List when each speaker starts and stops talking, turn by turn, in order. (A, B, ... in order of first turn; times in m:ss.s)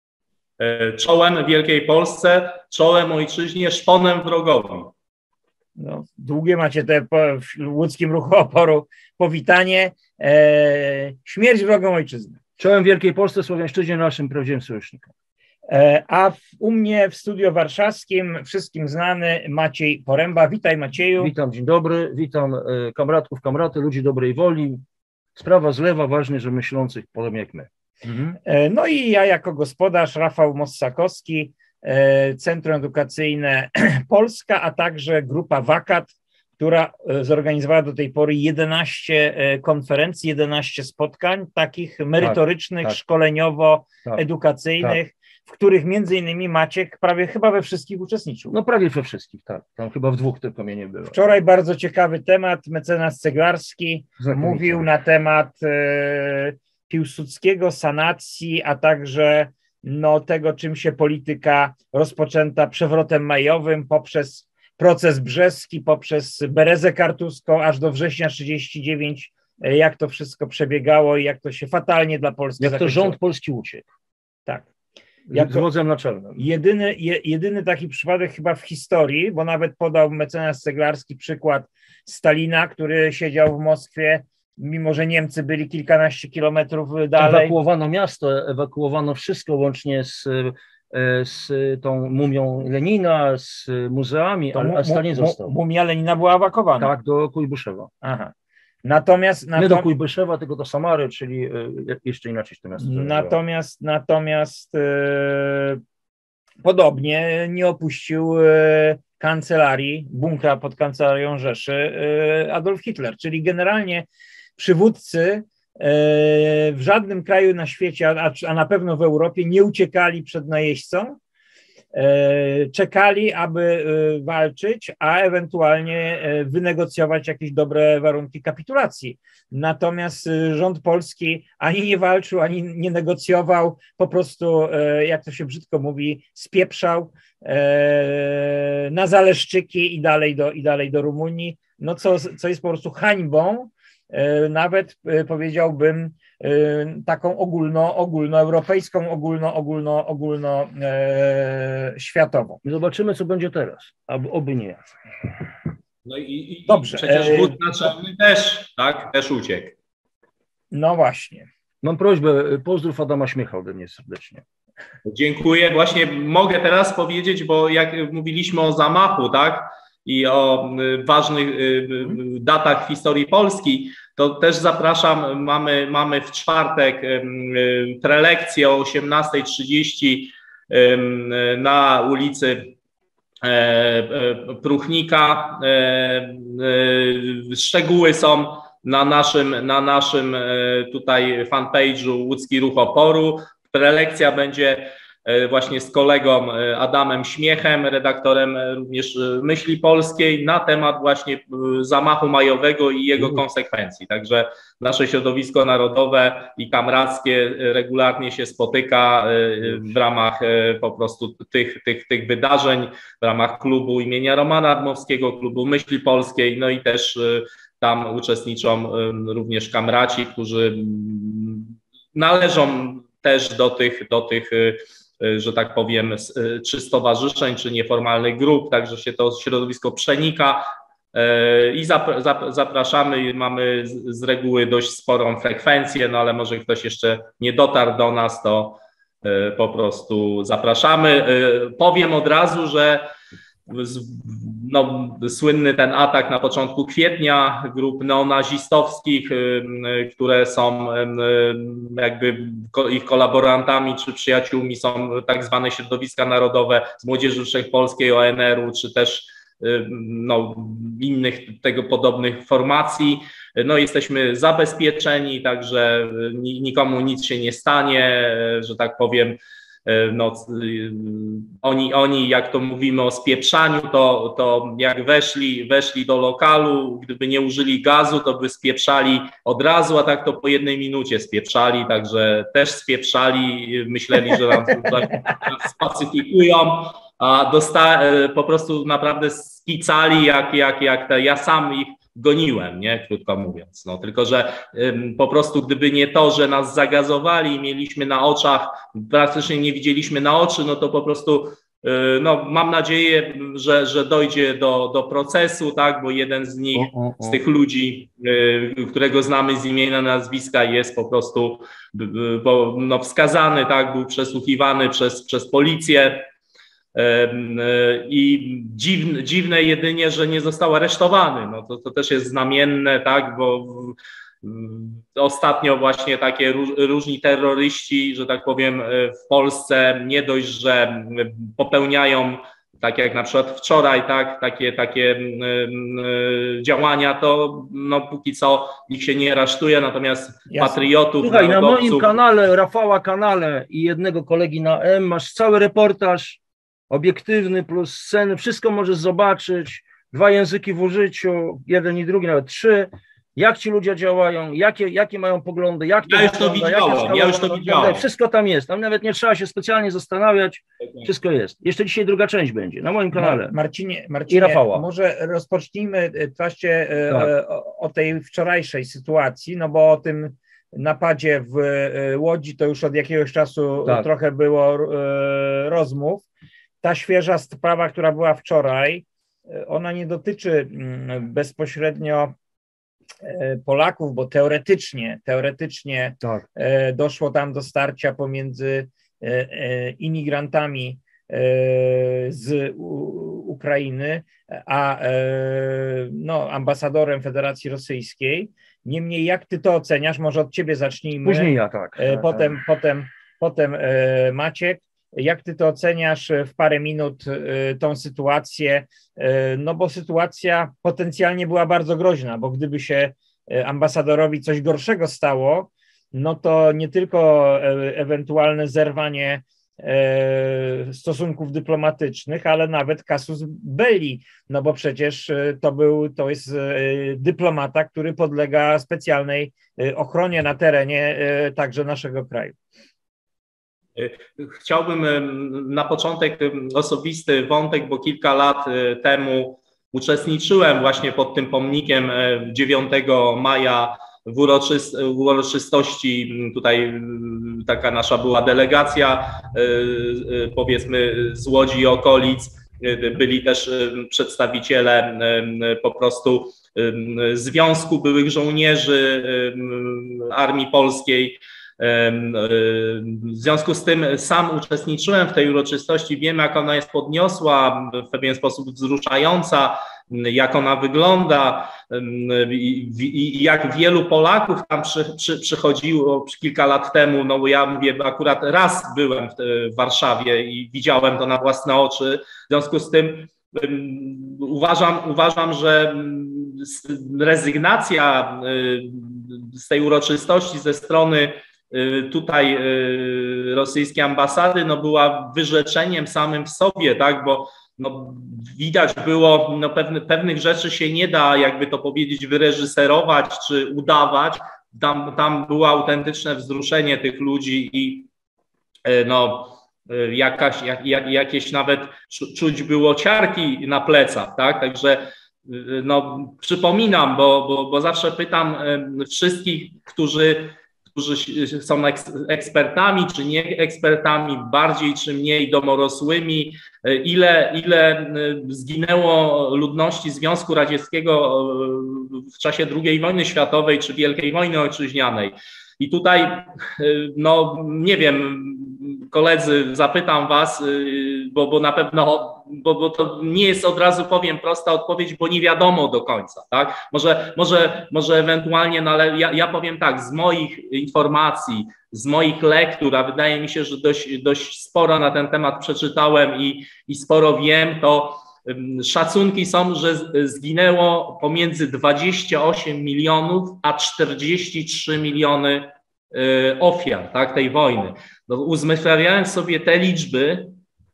0:00.6-0:04.9 A
0:05.8-0:12.4 B
0:12.6-0:15.1 C
0:15.7-0:21.3 B
0:21.2-0:24.8 C
0:25.4-0:28.4 C
0:28.4-0:48.5 B
0:42.2-0:43.0 C
0:48.5-0:51.2 C
0:51.1-1:13.2 B
0:54.2-0:54.8 C
1:12.6-1:13.9 C
1:15.3-1:16.4 C
1:15.3-1:15.7 B
1:16.4-1:27.6 B
1:27.2-1:35.6 C
1:34.5-1:36.9 B
1:36.8-1:37.9 C
1:38.0-1:38.3 B
1:38.8-1:39.9 B
1:39.6-1:43.4 C
1:42.8-1:45.8 B
1:46.6-2:01.2 B
2:01.9-2:32.6 B
2:32.6-2:34.8 C
2:36.0-2:39.8 A
2:36.7-2:37.6 B
2:40.7-2:41.5 B
2:41.8-2:44.4 C
2:45.1-3:02.7 A
3:03.4-4:03.1 A
3:23.2-3:23.4 C
4:03.7-5:16.3 A
5:06.7-5:07.4 C
5:17.0-5:42.2 A
5:40.5-5:40.8 B
5:41.2-6:03.5 C
5:56.1-5:58.1 A
6:03.1-6:16.2 B
6:04.3-6:04.9 C
6:16.8-6:22.4 B
6:23.2-7:12.6 B
6:41.2-6:42.5 C
7:14.0-8:28.1 A
8:28.9-9:30.6 A